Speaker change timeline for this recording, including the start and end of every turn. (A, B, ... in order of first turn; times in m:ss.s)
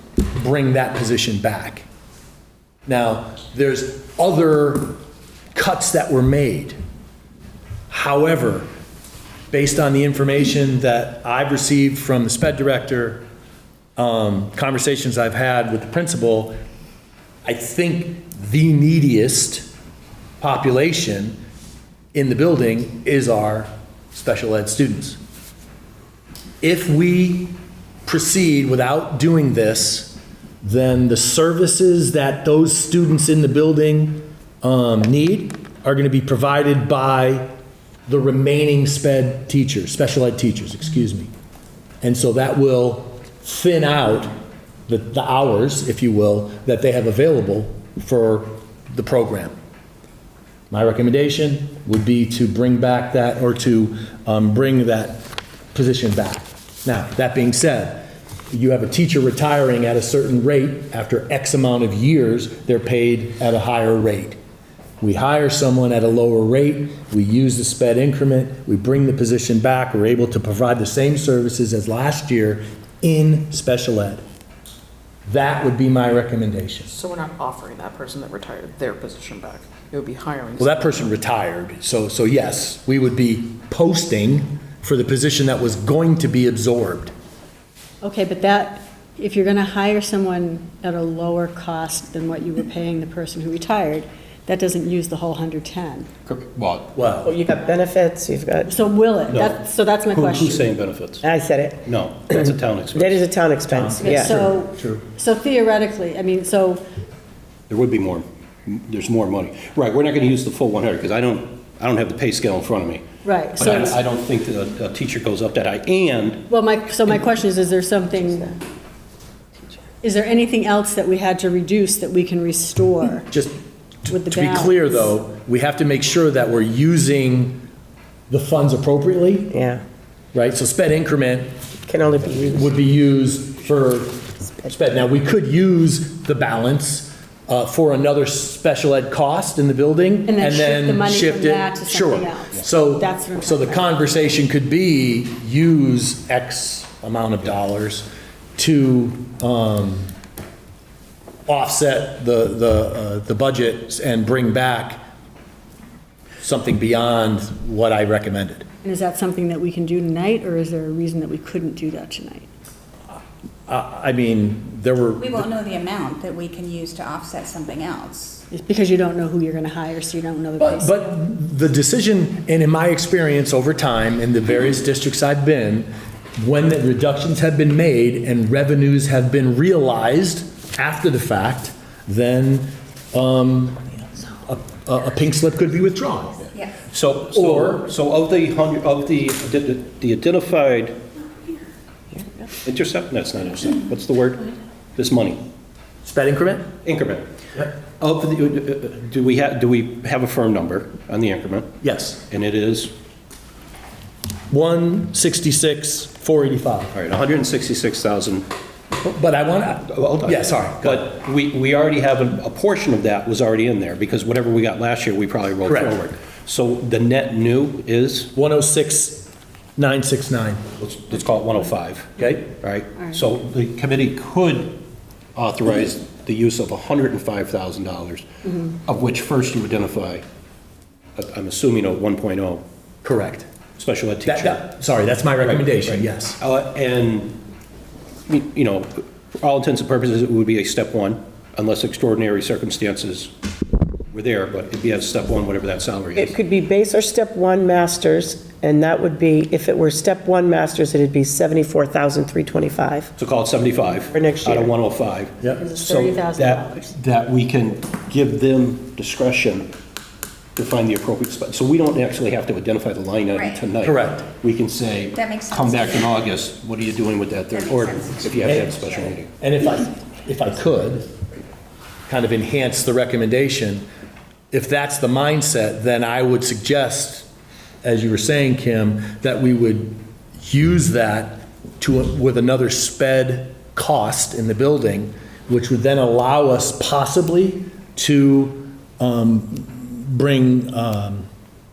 0:00.4-0:01.9 A
0:02.9-0:05.0 A
0:05.5-0:06.8 A
0:07.9-0:08.7 A
0:09.5-0:13.2 A
0:14.0-0:16.6 A
0:17.4-0:19.7 A
0:20.4-0:21.4 A
0:22.1-0:25.2 A
0:26.6-0:27.5 A
0:28.0-0:37.5 A
0:38.1-0:41.3 A
0:42.0-0:44.3 A
0:44.9-0:49.6 A
0:50.7-1:04.4 A
1:05.0-1:14.2 A
1:15.3-1:16.9 A
1:16.9-1:20.9 B
1:20.6-1:27.1 A
1:28.0-1:36.1 C
1:36.3-1:37.0 D
1:37.0-1:37.4 A
1:37.2-1:38.7 E
1:38.7-1:40.6 C
1:39.3-1:41.2 D
1:41.2-1:41.8 E
1:41.8-1:43.2 D
1:43.0-1:44.5 E
1:43.7-1:45.0 A
1:44.0-1:46.8 C
1:47.7-1:53.1 D
1:53.2-1:54.0 C
1:53.6-1:56.5 D
1:56.5-1:58.5 C
2:00.0-2:03.3 C
2:03.3-2:07.6 A
2:04.1-2:04.7 C
2:08.3-2:09.6 A
2:09.5-2:09.8 E
2:10.3-2:11.5 A
2:11.9-2:12.7 E
2:12.5-2:30.1 A
2:20.3-2:23.9 C
2:31.5-2:35.0 A
2:36.4-2:38.7 A
2:38.8-2:42.5 C
2:43.7-2:45.5 A
2:45.2-2:48.4 F
2:48.5-2:50.9 C
2:50.6-3:06.5 A
3:06.8-3:11.0 D
3:07.3-3:07.8 A
3:12.6-3:15.4 D
3:16.0-3:16.7 A
3:16.8-3:21.7 D
3:21.8-3:22.2 A
3:22.3-3:22.9 D
3:24.5-3:27.0 A
3:26.9-3:28.5 D
3:29.0-3:31.1 A
3:29.9-3:38.3 D
3:35.7-3:36.0 A
3:38.4-3:40.6 A
3:40.8-3:44.8 D
3:42.2-3:42.5 A
3:45.4-3:50.2 D
3:51.2-3:52.6 D
3:53.0-3:53.5 A
3:53.8-3:54.7 D
3:54.3-3:56.4 A
3:55.4-3:57.4 D
3:58.3-4:03.3 D
4:04.1-4:06.4 D
4:06.2-4:13.1 E
4:13.2-4:19.7 D
4:14.1-4:14.7 E
4:15.6-4:16.8 C
4:20.6-4:29.3 D
4:23.3-4:23.6 F
4:23.8-4:24.3 A
4:25.1-4:26.2 F
4:27.5-4:29.1 F
4:29.4-4:31.1 A
4:32.1-4:33.9 A
4:34.5-4:37.3 A
4:37.8-4:51.3 A